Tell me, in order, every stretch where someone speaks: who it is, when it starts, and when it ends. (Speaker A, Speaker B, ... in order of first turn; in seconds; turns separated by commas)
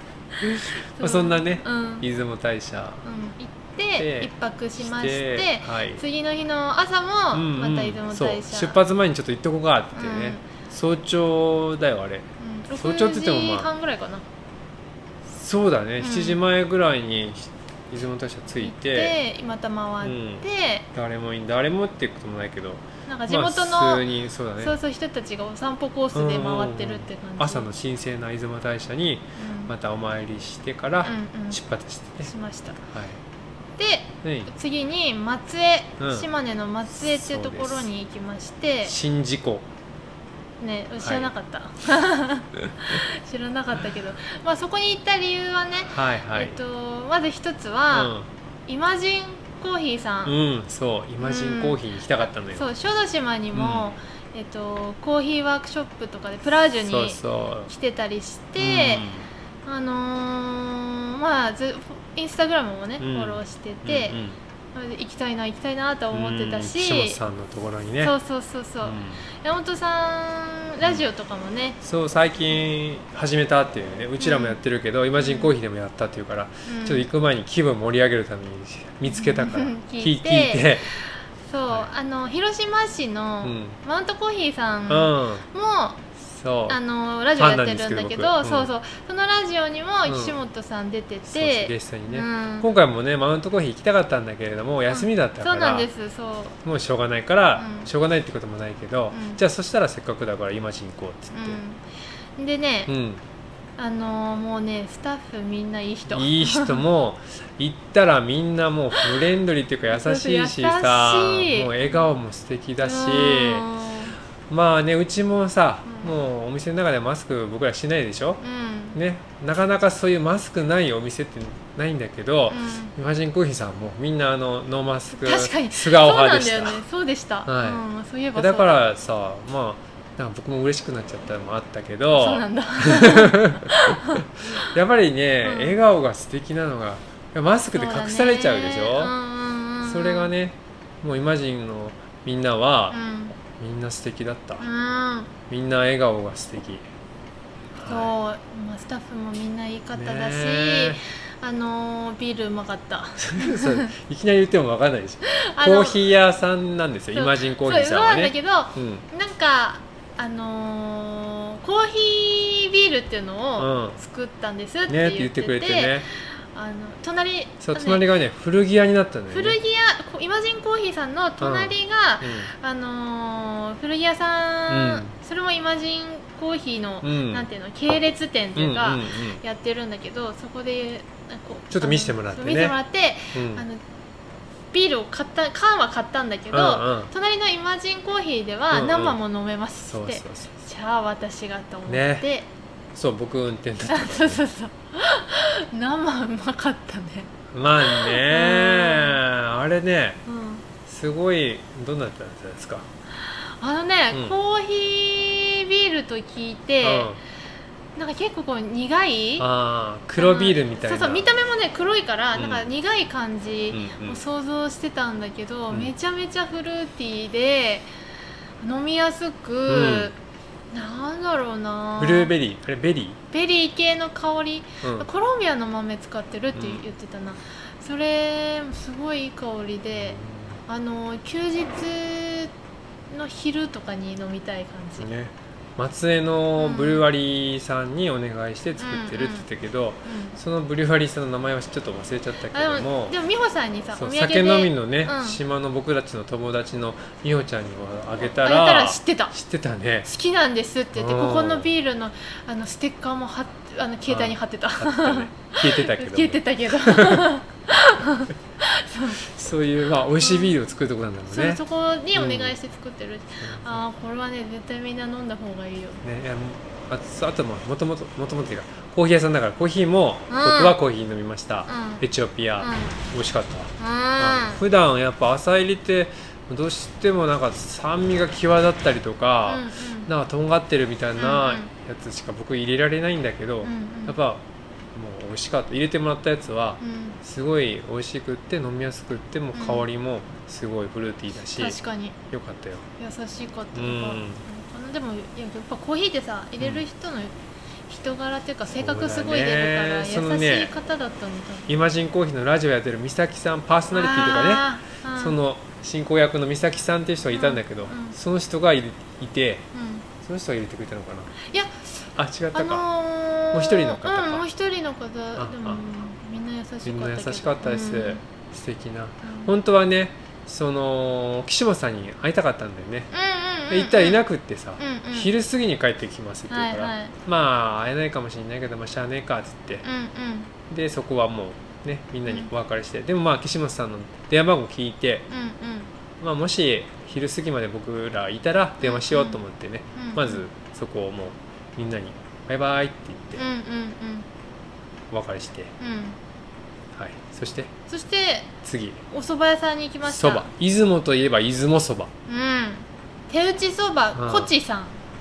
Speaker A: 0.4-3.0, Speaker B: 1.0-2.0, Speaker B: 3.0-8.8, Speaker A: 3.9-6.0, Speaker A: 7.3-13.7, Speaker B: 9.9-10.4, Speaker B: 12.4-14.2, Speaker A: 15.2-19.2, Speaker B: 16.0-16.4, Speaker B: 18.6-20.9, Speaker A: 20.0-24.8, Speaker B: 23.1-24.1, Speaker B: 24.6-27.7, Speaker A: 26.1-32.3, Speaker B: 29.4-29.7, Speaker B: 31.0-31.6, Speaker B: 32.2-32.8, Speaker A: 32.9-33.2, Speaker B: 33.8-38.9, Speaker A: 34.2-34.5, Speaker A: 36.0-36.3, Speaker A: 36.9-37.9, Speaker A: 38.8-39.7, Speaker B: 40.6-48.1, Speaker A: 41.0-41.3, Speaker A: 45.9-46.6, Speaker A: 47.9-48.3, Speaker B: 48.7-50.3, Speaker A: 50.2-52.7, Speaker B: 51.2-59.1, Speaker A: 53.5-53.9, Speaker A: 56.8-57.7, Speaker A: 58.6-59.3, Speaker B: 59.6-64.2, Speaker A: 63.0-64.4, Speaker B: 64.7-67.2, Speaker A: 66.1-68.1, Speaker B: 68.0-71.8, Speaker A: 68.8-69.2, Speaker A: 71.8-80.9, Speaker B: 74.2-74.6, Speaker B: 75.2-75.5, Speaker B: 76.7-77.1, Speaker B: 79.1-86.0, Speaker A: 83.4-83.8, Speaker A: 84.9-85.4, Speaker A: 86.2-86.8, Speaker B: 86.7-92.7, Speaker A: 87.3-88.7, Speaker A: 90.0-90.4, Speaker A: 91.3-95.9, Speaker B: 94.9-96.6, Speaker A: 96.6-101.6, Speaker B: 97.5-97.9, Speaker B: 99.1-99.4, Speaker B: 101.3-101.8, Speaker B: 102.4-102.9, Speaker A: 102.9-103.2, Speaker B: 103.8-106.8, Speaker A: 106.1-113.7, Speaker B: 109.0-109.3, Speaker B: 109.9-112.1, Speaker B: 112.8-114.2, Speaker A: 114.5-118.4, Speaker B: 115.9-116.1, Speaker B: 118.4-119.0, Speaker A: 118.9-126.8, Speaker B: 122.5-122.9, Speaker B: 125.1-128.8, Speaker A: 127.5-127.8, Speaker A: 128.3-139.1, Speaker B: 132.1-134.2, Speaker B: 135.4-135.8, Speaker B: 137.7-140.3, Speaker A: 139.8-144.7, Speaker B: 142.9-143.3, Speaker B: 144.6-145.3, Speaker A: 145.5-146.8, Speaker A: 147.7-148.1, Speaker B: 147.8-153.9, Speaker A: 149.9-151.0, Speaker A: 153.2-159.0, Speaker B: 155.2-156.0, Speaker B: 157.1-168.0, Speaker A: 163.6-164.0, Speaker A: 164.9-166.1, Speaker A: 167.6-169.6, Speaker B: 169.3-183.8, Speaker A: 171.4-172.5, Speaker A: 174.7-175.2, Speaker A: 177.0-177.5, Speaker A: 178.6-179.4, Speaker A: 181.7-182.8, Speaker A: 183.3-183.6, Speaker B: 184.7-192.5, Speaker A: 186.5-187.1, Speaker A: 188.7-189.2, Speaker A: 189.9-190.5, Speaker A: 191.9-192.3, Speaker A: 192.9-194.4, Speaker B: 193.9-199.2, Speaker A: 197.5-200.2, Speaker B: 200.2-200.6, Speaker A: 200.8-202.9, Speaker B: 203.2-207.1, Speaker A: 206.8-207.2, Speaker B: 207.9-209.5, Speaker A: 209.4-211.3, Speaker B: 210.2-217.9, Speaker A: 212.3-212.7, Speaker A: 213.7-214.2, Speaker B: 218.6-220.2, Speaker A: 219.7-220.1, Speaker B: 220.7-222.3, Speaker A: 222.0-223.2, Speaker B: 223.3-232.5, Speaker A: 224.8-225.1, Speaker A: 226.5-226.8, Speaker A: 229.9-230.6, Speaker B: 233.1-235.1, Speaker A: 235.0-243.1, Speaker B: 236.6-237.0, Speaker B: 238.8-239.4, Speaker B: 240.0-240.4, Speaker B: 242.5-245.4, Speaker A: 243.9-250.1, Speaker B: 248.2-249.3, Speaker B: 250.1-259.2, Speaker A: 250.9-251.7, Speaker A: 254.1-257.3, Speaker A: 259.2-261.6, Speaker B: 260.2-260.5, Speaker B: 261.3-266.0, Speaker A: 262.1-262.6, Speaker A: 263.4-263.8, Speaker A: 266.0-284.4, Speaker B: 270.3-270.8, Speaker B: 271.7-272.0, Speaker B: 272.6-273.0, Speaker B: 273.8-274.6, Speaker B: 279.4-280.1, Speaker B: 281.1-281.7, Speaker B: 283.6-284.2, Speaker A: 284.9-291.8, Speaker B: 286.8-287.2, Speaker B: 289.5-289.9, Speaker B: 291.6-292.2, Speaker A: 292.3-292.9, Speaker B: 293.0-297.3, Speaker A: 293.7-294.4, Speaker B: 297.9-301.7, Speaker A: 298.7-300.7, Speaker A: 301.7-309.6, Speaker B: 303.9-305.4, Speaker B: 307.3-308.1, Speaker B: 309.7-310.1, Speaker A: 310.2-311.4, Speaker B: 311.4-311.8, Speaker A: 312.1-312.9, Speaker B: 312.5-318.2, Speaker A: 313.5-314.4, Speaker A: 315.4-315.8, Speaker A: 316.8-323.1, Speaker B: 319.2-319.5, Speaker B: 323.1-324.2, Speaker A: 323.7-329.8, Speaker B: 324.8-325.3, Speaker B: 326.5-327.1, Speaker B: 329.8-330.5, Speaker A: 330.7-335.3, Speaker B: 335.3-335.9, Speaker A: 336.2-343.4, Speaker B: 338.8-339.4, Speaker B: 339.9-340.4, Speaker B: 343.4-344.3, Speaker A: 345.1-345.7, Speaker B: 345.8-346.2, Speaker A: 346.9-347.7, Speaker B: 347.9-348.5, Speaker A: 348.6-349.0, Speaker B: 349.1-350.5, Speaker A: 350.0-352.1, Speaker B: 352.3-355.0, Speaker A: 354.1-354.5